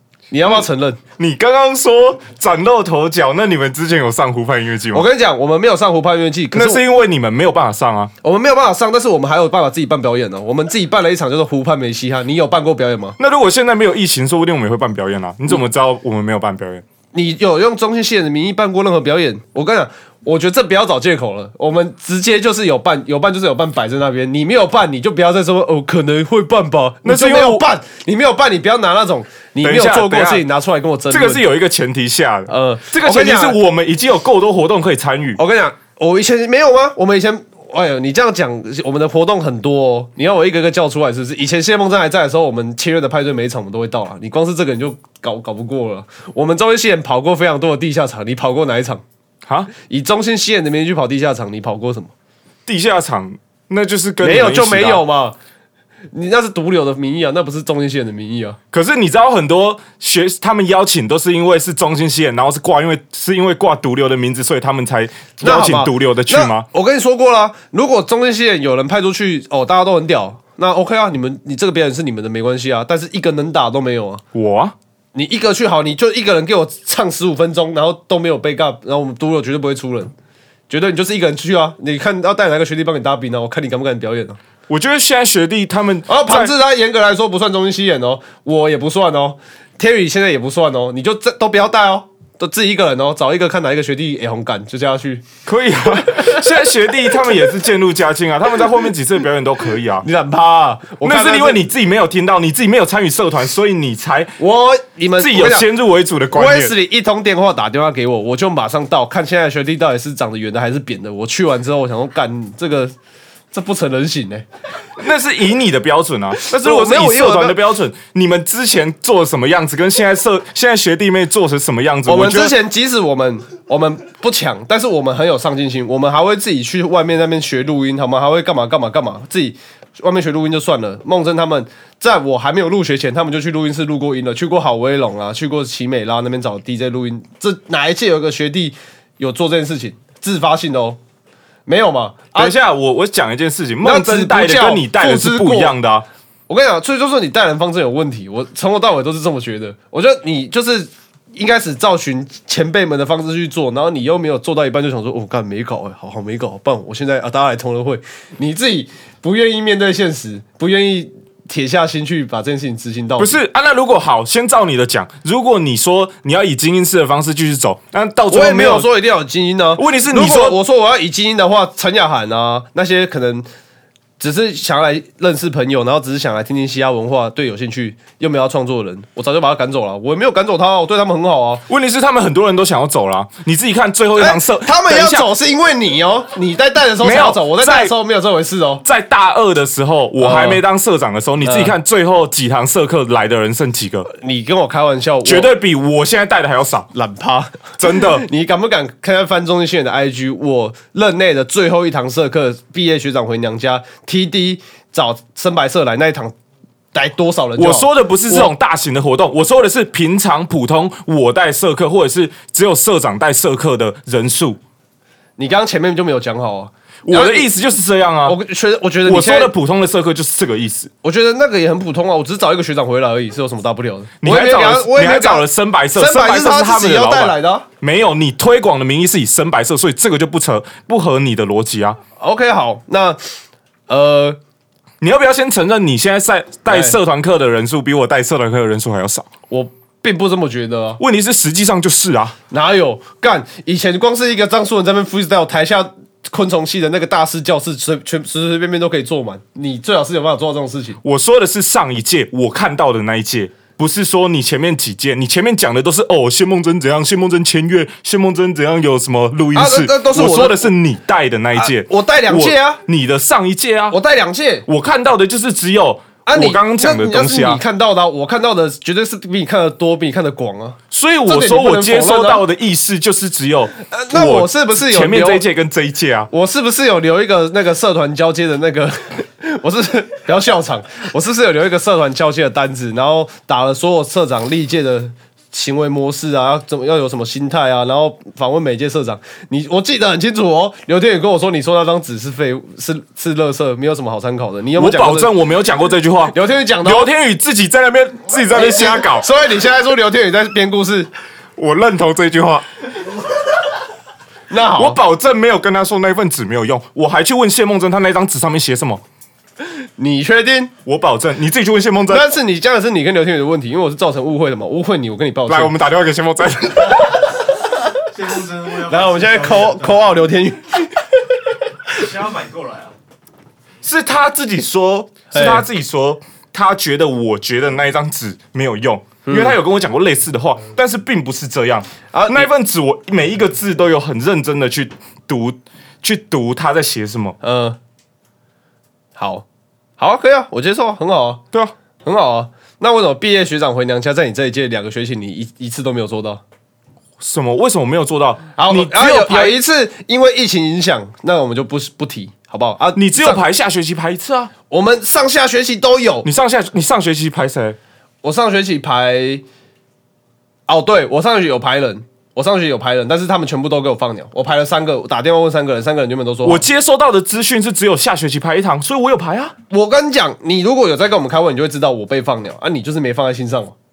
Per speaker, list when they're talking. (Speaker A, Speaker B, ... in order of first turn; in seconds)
Speaker A: 0.3-1.0, 4.9-6.8, 8.2-13.2, 17.1-31.4, 32.5-33.6, 35.4-49.0, 49.8-52.1, 54.2-55.4, 56.1-58.6, 65.4-74.2, 75.2-80.1, 80.7-84.4, 86.1-95.2, 100.0-101.6, 104.4-105.7, 106.3-112.9, 113.5-114.5, 116.4-117.6, 122.1-141.0, 141.7-142.6, 143.8-145.8, 146.5-163.4, 168.3-173.5, 174.2-181.6, 184.2-188.8, 190.2-190.6, 191.4-191.7, 194.1-195.5, 196.9-206.3, 206.9-208.5, 215.4-217.5, 218.2-219.5, 221.0-227.7, 232.2-233.3, 233.9-234.4, 236.7-237.0, 239.5-241.0, 242.5-251.0, 259.5-260.7, 261.6-262.8, 263.9-264.7, 266.3-272.4, 273.9-275.4, 276.3-295.3, 296.3-297.1, 298.5-301.1, 304.5-305.0, 310.0-310.7, 312.1-315.7, 318.9-321.1, 325.3-325.6, 329.2-329.6, 332.1-332.5, 337.4-337.8, 339.2-339.5, 340.0-341.4, 342.0-346.4, 348.6-353.4, 354.7-356.3, 358.2-359.4, 360.7-366.6, 369.7-373.8
Speaker B: 1.2-5.1, 6.5-8.1, 13.2-16.9, 27.0-27.6, 29.6-30.4, 31.1-35.4, 49.5-49.7, 52.7-55.0, 58.7-66.7, 74.3-74.8, 84.7-86.5, 95.5-100.1, 101.0-104.4, 105.2-106.7, 115.0-122.6, 142.3-146.1, 163.2-168.9, 169.8-170.6, 181.7-185.3, 187.0-187.9, 188.8-194.1, 195.2-196.9, 197.8-198.3, 207.6-214.6, 217.1-218.4, 219.1-220.9, 224.2-232.0, 235.0-239.3, 241.0-242.4, 251.0-264.0, 264.7-267.6, 270.9-276.3, 294.8-299.3, 301.6-302.7, 304.8-309.0, 310.9-312.3, 315.5-317.2, 323.8-337.4, 347.2-349.6, 352.9-354.5, 356.2-357.8, 366.4-369.6
Speaker C: 318.1-320.0, 321.9-322.9